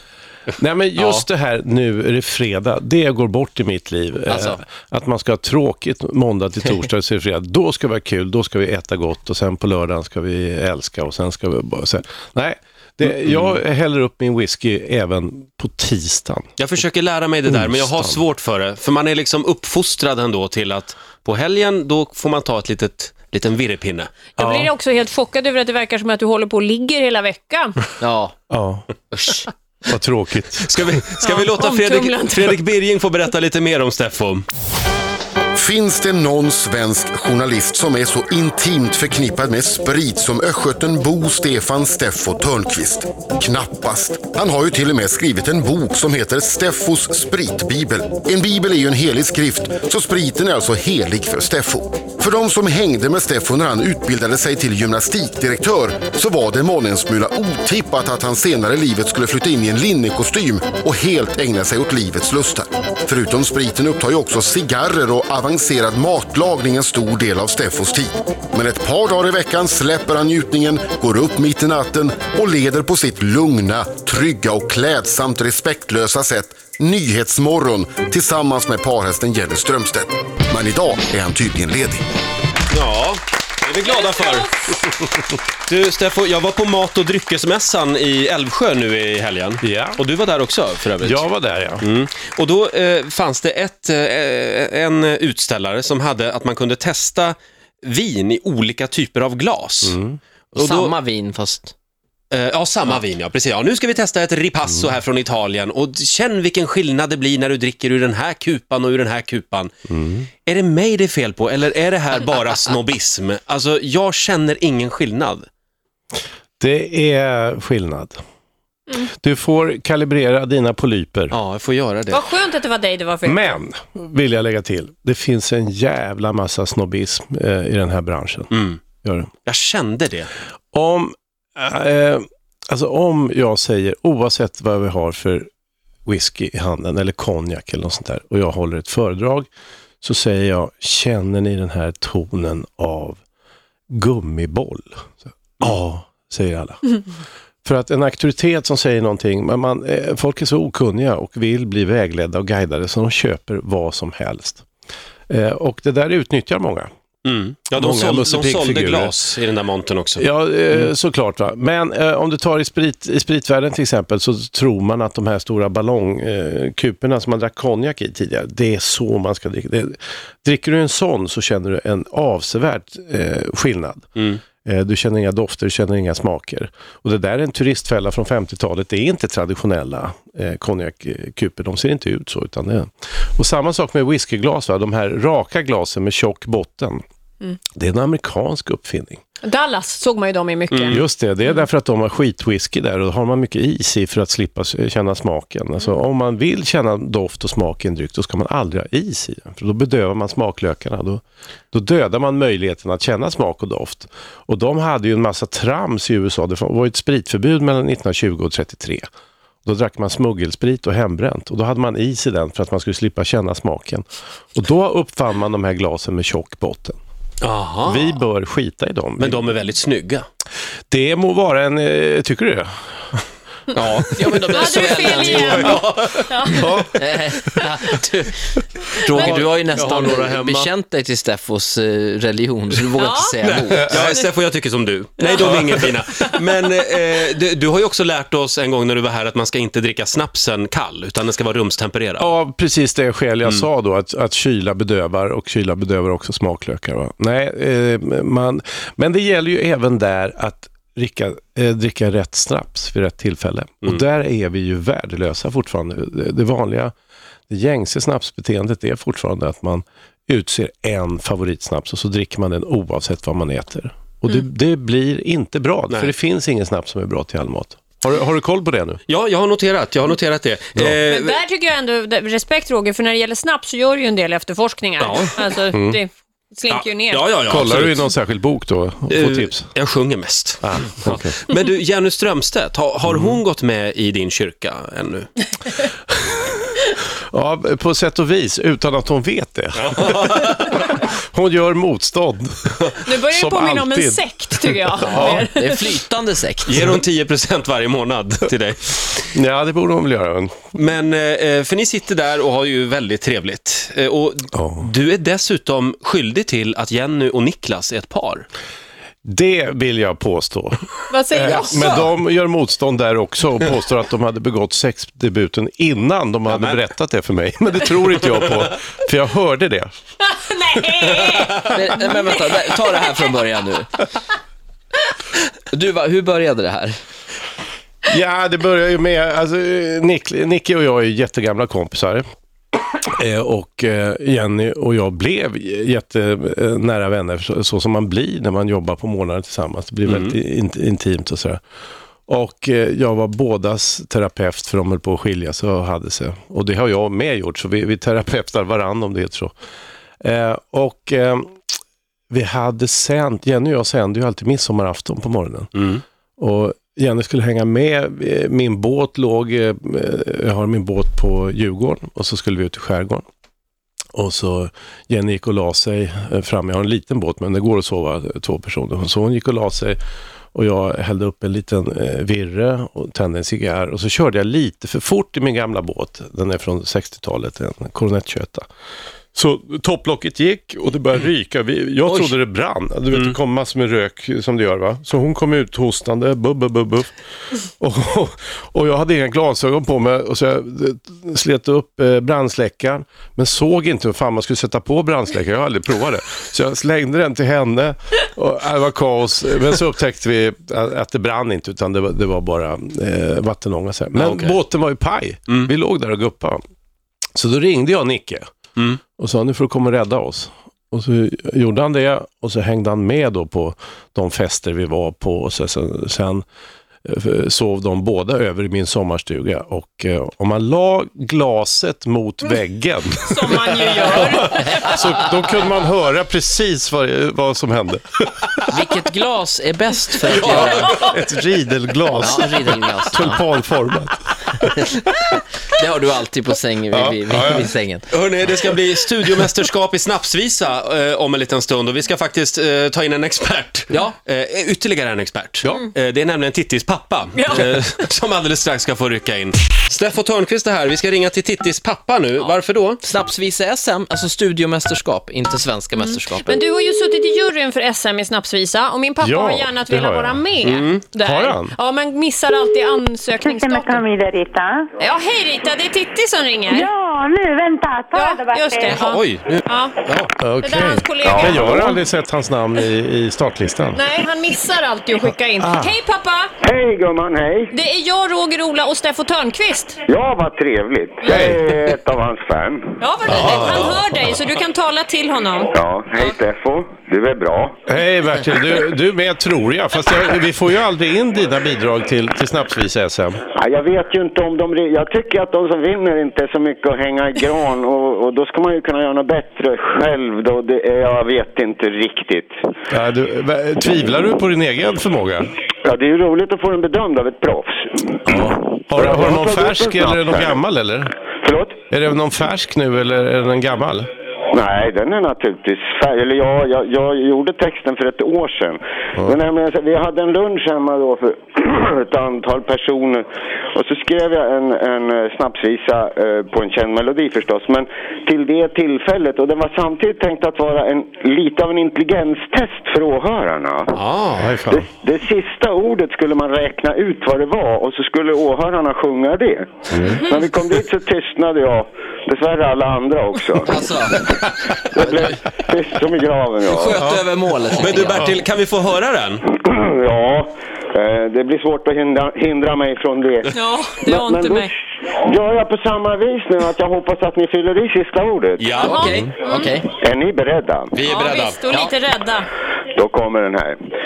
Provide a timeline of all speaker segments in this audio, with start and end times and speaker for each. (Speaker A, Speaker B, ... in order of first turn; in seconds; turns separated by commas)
Speaker A: 0.6-16.5, Speaker B: 4.3-4.6, Speaker C: 13.2-13.6, Speaker C: 16.6-24.2, Speaker A: 17.4-18.2, Speaker D: 24.4-27.9, Speaker A: 24.4-24.7, Speaker B: 28.0-28.3, Speaker A: 28.5-28.9, Speaker C: 29.2-29.4, Speaker A: 29.9-30.7, Speaker C: 30.6-34.5, Speaker D: 31.2-32.5, Speaker E: 35.5-82.0, Speaker C: 82.7-84.5, Speaker D: 83.8-84.8, Speaker C: 85.6-91.2, Speaker A: 89.6-90.0, Speaker A: 91.0-91.9, Speaker C: 91.8-100.0, Speaker A: 99.8-100.2, Speaker B: 100.5-101.7, Speaker C: 100.5-100.9, Speaker C: 102.3-109.7, Speaker A: 109.9-110.3, Speaker C: 110.5-115.5, Speaker A: 116.6-118.2, Speaker A: 119.0-121.3, Speaker C: 121.3-122.2, Speaker D: 122.1-123.6, Speaker A: 123.2-128.5, Speaker C: 128.5-128.8, Speaker A: 129.0-129.3, Speaker C: 129.4-130.3, Speaker A: 130.7-135.5, Speaker A: 136.1-139.5, Speaker A: 140.0-143.2, Speaker A: 143.9-147.0, Speaker A: 147.6-154.6, Speaker A: 155.3-156.9, Speaker C: 157.2-160.8, Speaker A: 157.7-159.1, Speaker A: 160.2-187.0, Speaker C: 174.2-174.4, Speaker A: 187.7-189.2, Speaker D: 189.4-191.0, Speaker C: 190.7-191.0, Speaker A: 190.9-209.1, Speaker A: 209.6-217.0, Speaker C: 217.4-218.1, Speaker A: 217.8-219.5, Speaker C: 219.2-220.2, Speaker A: 220.9-222.7, Speaker C: 223.7-224.0, Speaker B: 223.9-225.8, Speaker D: 224.5-226.7, Speaker C: 224.7-226.6, Speaker A: 226.5-227.6, Speaker B: 227.0-233.9, Speaker D: 229.1-229.4, Speaker C: 229.1-230.7, Speaker D: 233.0-234.3, Speaker C: 233.4-242.3, Speaker D: 235.2-235.8, Speaker A: 235.4-235.8, Speaker A: 242.2-256.9, Speaker A: 257.5-269.0, Speaker C: 269.1-271.4, Speaker D: 271.1-277.2, Speaker C: 275.0-275.4, Speaker A: 275.7-276.0, Speaker C: 276.7-278.1, Speaker A: 277.5-279.7, Speaker C: 279.1-285.3, Speaker A: 280.6-281.4, Speaker A: 283.1-283.4, Speaker A: 287.3-295.5, Speaker C: 289.8-290.9, Speaker D: 293.0-295.8, Speaker B: 295.0-296.8, Speaker C: 296.6-299.2, Speaker A: 299.3-300.5, Speaker C: 300.7-308.4, Speaker A: 304.5-304.9, Speaker A: 309.2-319.9, Speaker D: 311.1-311.9, Speaker B: 311.5-312.0, Speaker D: 320.3-322.4, Speaker B: 321.6-324.1, Speaker B: 325.7-327.0, Speaker A: 328.0-332.2, Speaker A: 333.1-341.6, Speaker C: 340.0-340.3, Speaker A: 342.3-349.5, Speaker A: 350.2-351.6, Speaker A: 352.3-355.7, Speaker C: 355.7-356.0, Speaker A: 356.4-363.2, Speaker A: 364.1-370.0, Speaker A: 370.5-378.6, Speaker A: 379.3-387.1, Speaker C: 382.1-382.3, Speaker A: 387.6-406.6, Speaker C: 404.1-404.6, Speaker A: 407.3-408.4, Speaker A: 409.2-416.4, Speaker A: 417.0-428.7, Speaker D: 423.2-424.8, Speaker B: 424.6-425.3, Speaker B: 428.7-431.0, Speaker C: 430.3-431.1, Speaker A: 430.4-435.3, Speaker B: 432.1-433.4, Speaker B: 435.7-438.0, Speaker A: 436.9-437.7, Speaker C: 438.1-453.0, Speaker D: 447.4-447.6, Speaker B: 453.0-456.6, Speaker D: 455.9-464.1, Speaker A: 459.2-460.5, Speaker C: 460.6-461.0, Speaker A: 461.1-461.7, Speaker F: 463.4-464.9, Speaker D: 465.0-466.9, Speaker F: 466.7-469.0, Speaker D: 468.1-469.9, Speaker C: 468.9-470.3, Speaker A: 470.4-474.0, Speaker D: 470.6-471.9, Speaker G: 471.2-471.9, Speaker D: 473.9-476.5, Speaker A: 475.6-476.0, Speaker G: 476.6-477.7, Speaker D: 477.7-480.0, Speaker G: 480.1-483.0, Speaker A: 481.2-481.6, Speaker D: 483.0-486.3, Speaker A: 483.3-484.1, Speaker G: 485.7-487.8, Speaker A: 487.9-493.4, Speaker G: 493.5-502.5, Speaker A: 502.9-505.5, Speaker G: 505.8-510.6, Speaker A: 508.2-511.1, Speaker G: 511.4-511.8, Speaker A: 511.9-514.1, Speaker G: 514.5-533.9, Speaker C: 533.9-534.5, Speaker A: 534.4-534.9, Speaker G: 534.7-543.8, Speaker A: 539.9-540.2, Speaker B: 543.6-544.4, Speaker G: 544.7-547.1, Speaker B: 545.0-545.3, Speaker B: 546.6-548.4, Speaker A: 546.9-547.2, Speaker C: 547.7-549.5, Speaker G: 549.5-553.5, Speaker D: 553.5-554.7, Speaker G: 554.0-558.8, Speaker C: 558.6-559.1, Speaker B: 558.8-559.8, Speaker D: 558.8-559.7, Speaker G: 559.9-561.0, Speaker C: 560.9-561.6, Speaker D: 561.0-562.5, Speaker G: 562.9-563.8